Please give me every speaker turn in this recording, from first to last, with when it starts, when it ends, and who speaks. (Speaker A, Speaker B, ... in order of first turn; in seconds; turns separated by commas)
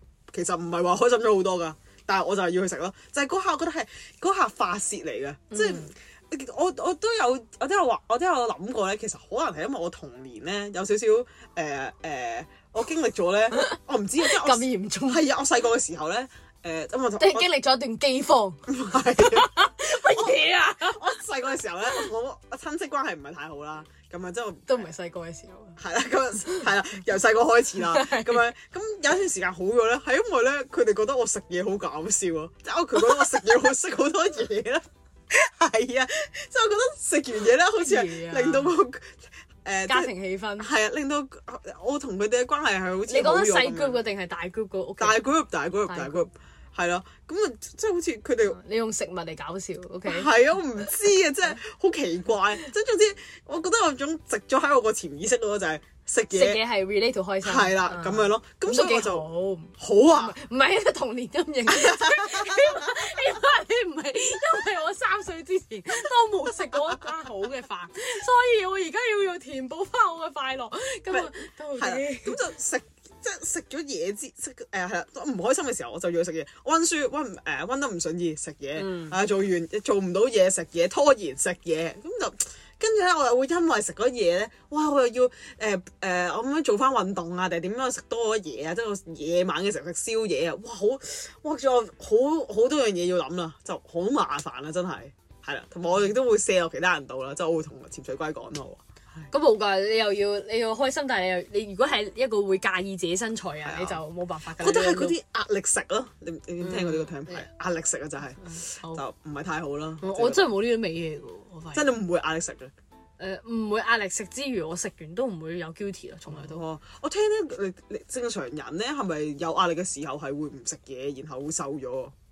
Speaker A: 0.3-17.5, Speaker B: 5.5-5.9, Speaker B: 13.5-15.3, Speaker B: 17.2-21.2, Speaker A: 18.7-24.8, Speaker B: 24.7-25.8, Speaker A: 25.8-44.0, Speaker B: 27.8-28.4, Speaker B: 37.7-38.8, Speaker B: 39.9-40.7, Speaker B: 43.1-45.2, Speaker A: 45.0-48.6, Speaker B: 45.9-46.2, Speaker B: 48.5-50.3, Speaker A: 50.0-56.6, Speaker B: 56.3-72.4, Speaker A: 57.4-59.3, Speaker A: 59.8-60.4, Speaker A: 61.7-63.0, Speaker A: 71.1-99.2, Speaker B: 78.8-79.2, Speaker B: 99.3-105.2, Speaker A: 103.6-104.0, Speaker A: 104.6-110.5, Speaker B: 106.6-107.5, Speaker B: 108.4-109.0, Speaker B: 110.0-111.9, Speaker A: 111.7-112.7, Speaker B: 113.2-116.6, Speaker A: 116.3-122.1